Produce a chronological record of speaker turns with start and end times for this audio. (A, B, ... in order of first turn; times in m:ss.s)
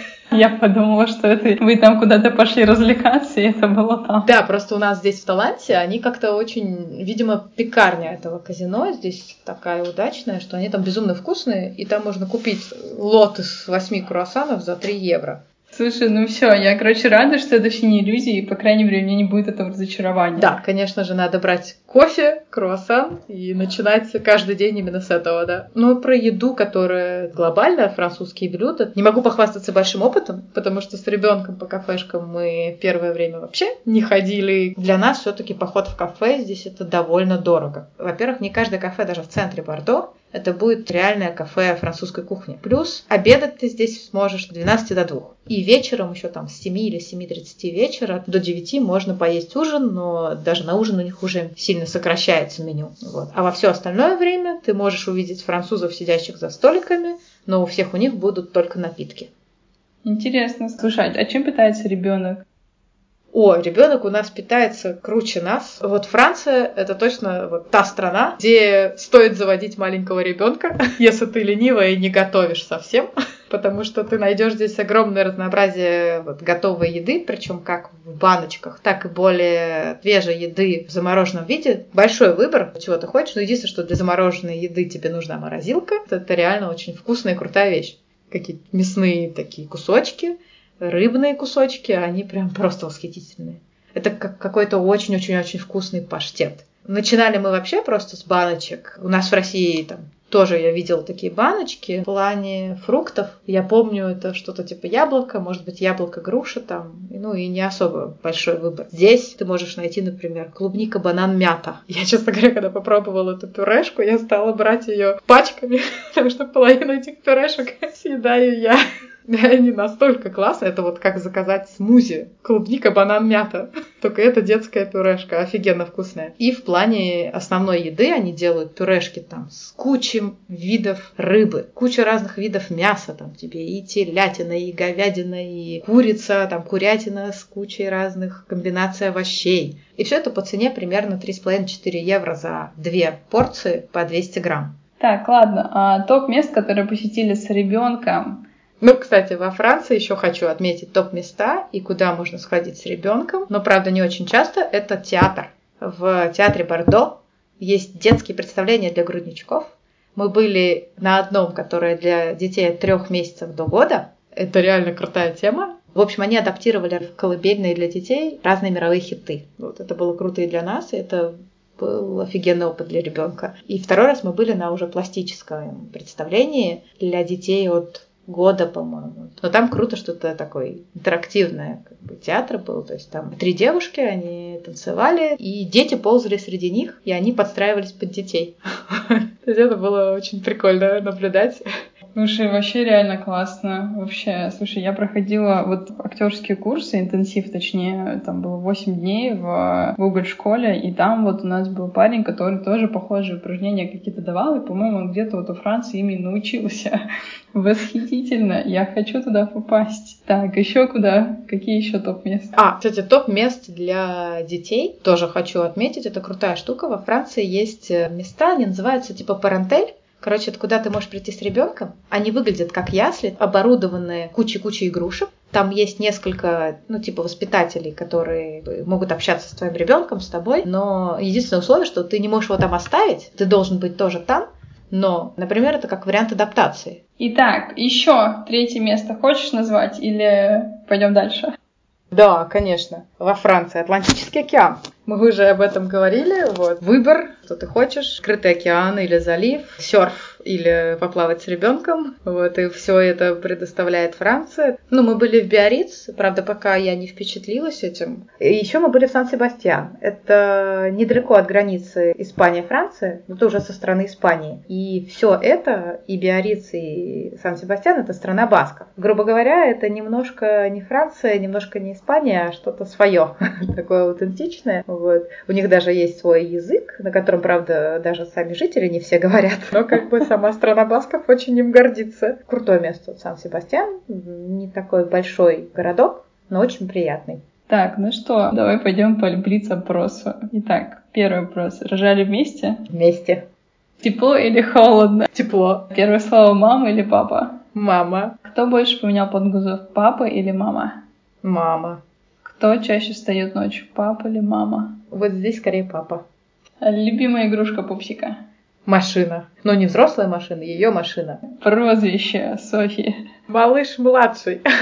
0:00.3-0:04.3 A
0:04.2-0:15.4 B
0:15.7-0:20.5 A
0:20.3-0:59.3 B
1:00.0-1:02.4 A
1:03.3-2:24.7 B
2:25.0-2:28.4 A
2:28.8-3:11.6 B
3:12.1-3:27.0 A
3:27.5-3:32.5 A
3:32.6-3:57.0 B
3:57.2-4:01.5 A
4:02.1-4:47.4 B
4:47.7-4:52.8 A
4:52.9-4:53.4 B
4:54.0-4:55.3 A
4:55.3-4:55.9 B
4:55.9-4:57.6 A
4:57.7-4:58.4 B
4:58.4-5:01.0 A
5:01.4-5:02.0 B
5:02.4-5:05.0 A
5:05.1-5:06.2 B
5:06.8-5:08.3 A
5:08.8-5:11.4 B
5:11.5-5:13.2 A
5:13.5-5:14.6 B